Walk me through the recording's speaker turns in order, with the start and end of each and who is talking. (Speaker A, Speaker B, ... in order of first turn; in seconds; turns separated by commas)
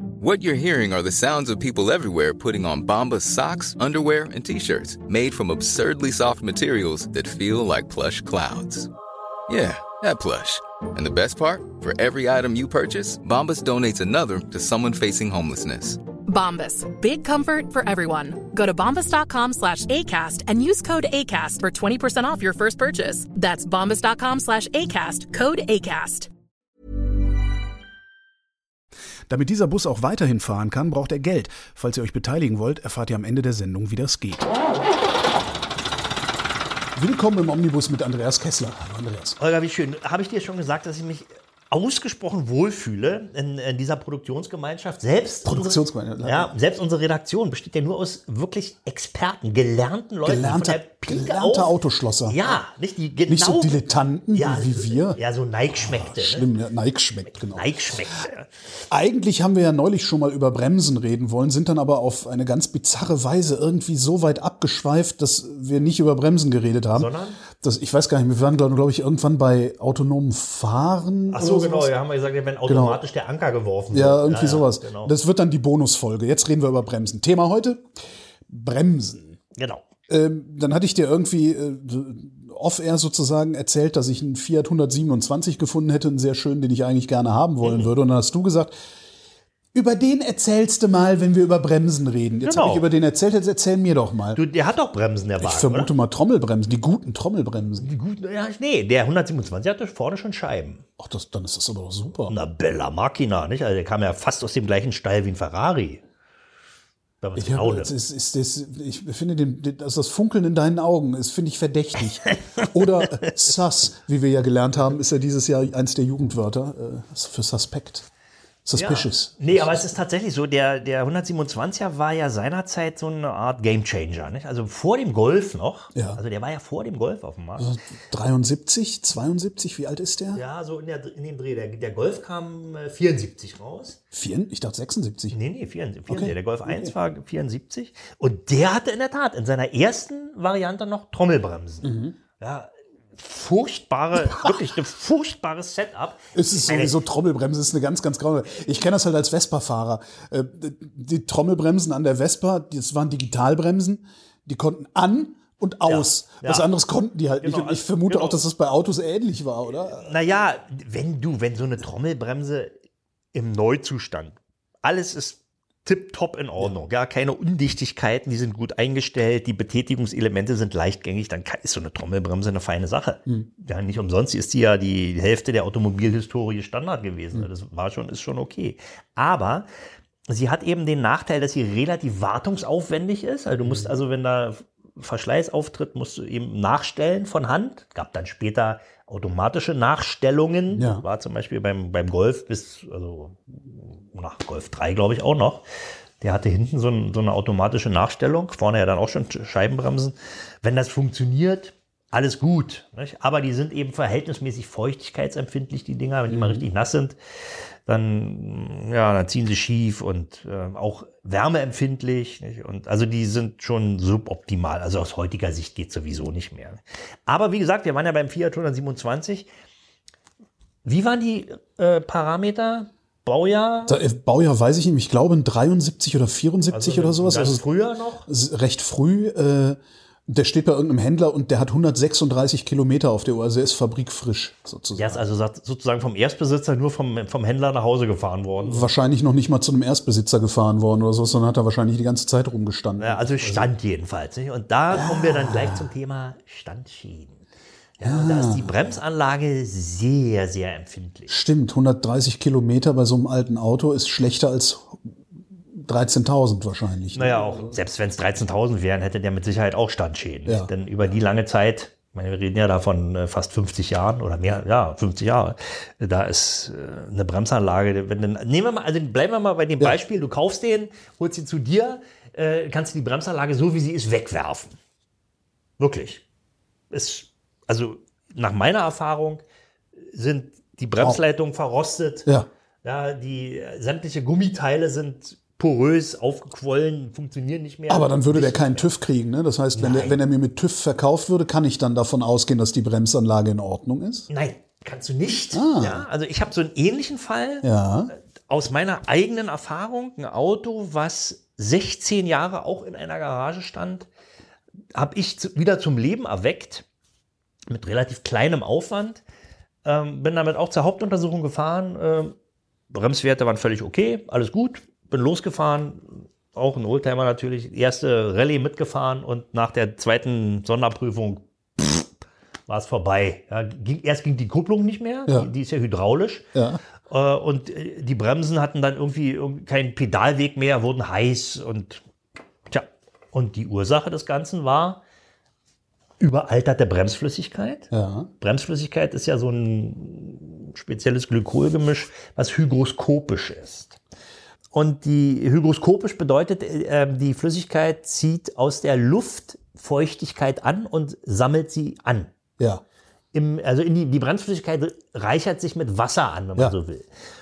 Speaker A: 0.2-8.9, Speaker A: 9.5-16.0, Speaker B: 16.2-26.3, Speaker C: 29.3-34.5, Speaker C: 37.0-39.4, Speaker D: 39.4-51.7, Speaker C: 45.4-46.5, Speaker C: 50.2-52.6, Speaker D: 52.3-53.8, Speaker C: 53.3-58.1, Speaker D: 54.3-56.5, Speaker D: 57.5-58.5, Speaker C: 58.9-71.9, Speaker D: 66.9-67.4, Speaker D: 71.3-75.1, Speaker C: 72.7-73.0, Speaker C: 73.9-77.9, Speaker C: 78.5-79.4, Speaker D: 79.6-79.8, Speaker C: 80.1-88.7, Speaker D: 87.6-87.9, Speaker C: 89.7-94.4, Speaker D: 92.4-92.8, Speaker D: 94.3-95.9, Speaker C: 95.4-97.9, Speaker D: 97.8-100.8, Speaker C: 101.0-102.3, Speaker D: 102.3-106.0, Speaker D: 107.2-107.9, Speaker C: 107.3-118.0, Speaker C: 118.6-119.9, Speaker D: 118.8-127.7, Speaker C: 125.9-126.2, Speaker C: 127.6-130.4, Speaker D: 130.3-134.0, Speaker C: 134.1-135.3, Speaker D: 135.3-147.0, Speaker C: 136.1-136.9, Speaker C: 141.8-142.1, Speaker C: 146.3-160.1, Speaker D: 155.9-156.7, Speaker D: 157.4-158.4, Speaker D: 159.9-162.7, Speaker D: 163.3-179.7, Speaker D: 180.3-195.6, Speaker C: 183.6-183.9, Speaker C: 190.7-191.0, Speaker D: 196.2-207.2, Speaker C: 206.3-206.6, Speaker D: 207.8-219.5, Speaker D: 220.8-223.9, Speaker C: 223.9-227.7, Speaker D: 226.7-228.2, Speaker C: 228.2-235.2, Speaker D: 234.9-238.9, Speaker C: 238.6-243.7, Speaker D: 243.0-247.4, Speaker C: 244.9-245.9, Speaker D: 248.0-251.3, Speaker C: 248.0-248.9, Speaker C: 251.3-255.0, Speaker C: 255.8-257.8, Speaker D: 257.1-274.8, Speaker C: 260.4-261.1, Speaker D: 275.8-276.2, Speaker D: 276.9-279.4, Speaker D: 280.1-282.3, Speaker D: 282.8-288.9, Speaker C: 287.9-294.3, Speaker D: 289.7-290.2, Speaker D: 294.3-304.1, Speaker C: 295.5-296.1, Speaker C: 297.6-298.1, Speaker D: 304.9-306.8, Speaker D: 307.7-309.2, Speaker D: 309.8-312.3, Speaker D: 312.9-322.1, Speaker D: 322.7-326.4, Speaker C: 325.2-325.5, Speaker C: 326.5-326.8, Speaker D: 327.1-332.0, Speaker D: 332.7-335.0, Speaker D: 336.2-337.9, Speaker C: 337.9-338.3, Speaker D: 338.4-344.0, Speaker D: 344.7-352.3, Speaker D: 353.3-357.1